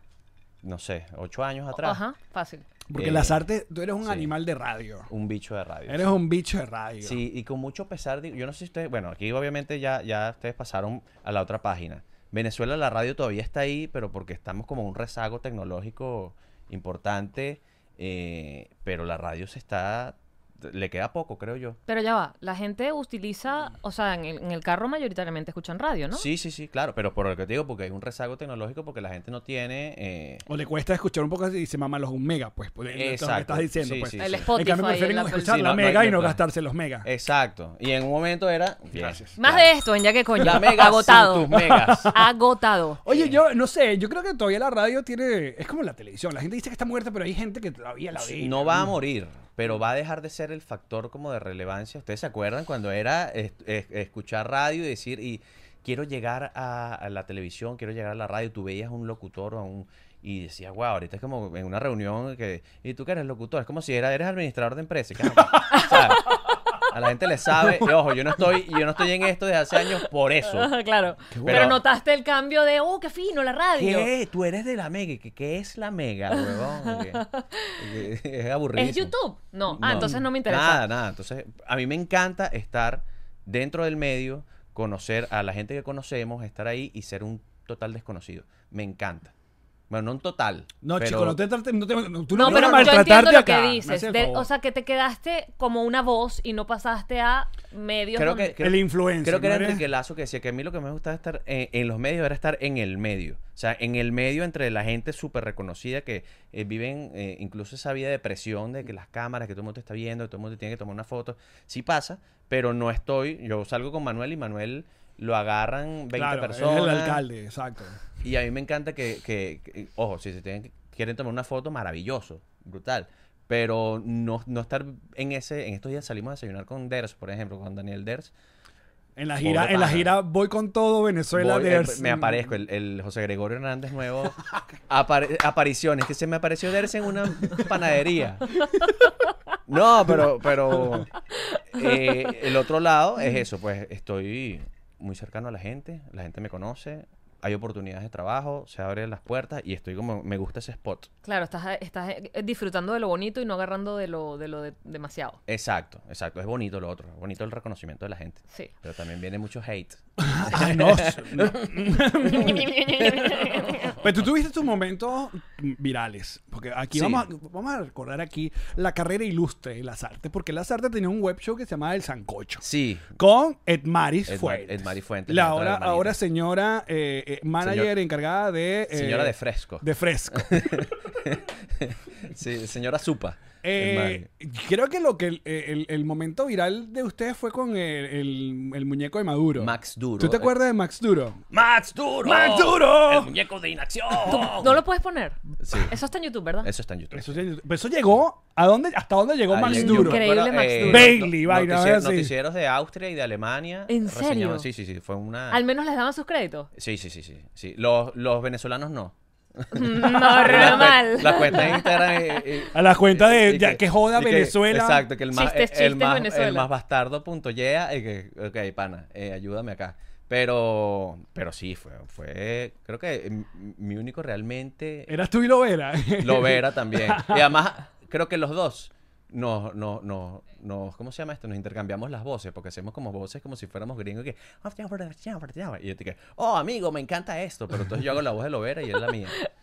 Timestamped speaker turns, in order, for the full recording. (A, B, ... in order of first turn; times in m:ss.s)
0:00.6-0:02.0 A
0:01.8-0:02.7 B
0:02.9-0:05.1 C
0:02.9-0:03.4 A
0:04.0-0:04.3 A
0:05.1-0:06.2 A
0:05.9-0:07.2 C
0:07.0-0:21.8 A
0:21.9-0:26.3 B
0:26.1-0:30.4 A
0:30.5-0:37.1 C
0:32.9-0:34.5 A
0:34.2-0:35.5 B
0:35.3-0:36.4 A
0:37.0-0:39.7 A
0:38.9-0:39.4 C
0:39.4-0:43.0 B
0:40.4-0:42.1 A
0:41.6-0:42.2 C
0:43.0-0:48.9 C
0:43.1-0:43.4 A
0:48.2-1:06.4 A
1:06.9-1:10.7 A
1:10.4-1:14.1 B
1:11.3-1:11.8 C
1:11.4-1:11.8 A
1:13.8-1:17.2 A
1:16.6-1:17.7 B
1:17.8-1:19.1 A
1:18.8-1:20.8 B
1:19.7-1:29.3 A
1:29.9-1:31.4 A
1:30.8-1:34.5 C
1:32.3-1:38.5 B
1:32.4-1:33.2 A
1:38.2-1:57.2 A
1:38.6-1:39.8 C
1:56.1-1:58.0 C
1:58.2-2:08.3 A
2:09.2-2:12.4 C
2:09.4-2:10.2 A
2:11.3-2:14.4 A
2:14.9-2:18.6 A
2:19.7-2:21.1 A
2:21.7-2:31.1 A
2:31.2-2:35.4 B
2:35.5-2:42.6 A
2:40.2-2:43.1 C
2:42.2-2:44.0 B
2:44.0-2:52.6 C
2:46.9-2:47.2 A
2:52.6-2:53.2 A
2:53.2-3:00.8 C
2:54.3-2:56.2 A
2:57.6-2:58.0 A
2:58.9-3:04.3 A
3:03.6-3:11.5 C
3:09.6-3:10.5 A
3:11.5-3:14.8 A
3:12.2-3:13.4 C
3:14.2-3:16.7 B
3:15.6-3:16.0 A
3:16.6-3:17.5 A
3:17.1-3:22.3 C
3:19.5-3:25.6 A
3:19.6-3:21.2 B
3:23.9-3:24.7 B
3:25.5-3:26.7 B
3:26.8-3:45.2 A
3:29.7-3:32.5 B
3:32.7-3:35.2 C
3:35.3-3:36.7 B
3:45.1-3:47.5 C
3:46.2-3:59.4 A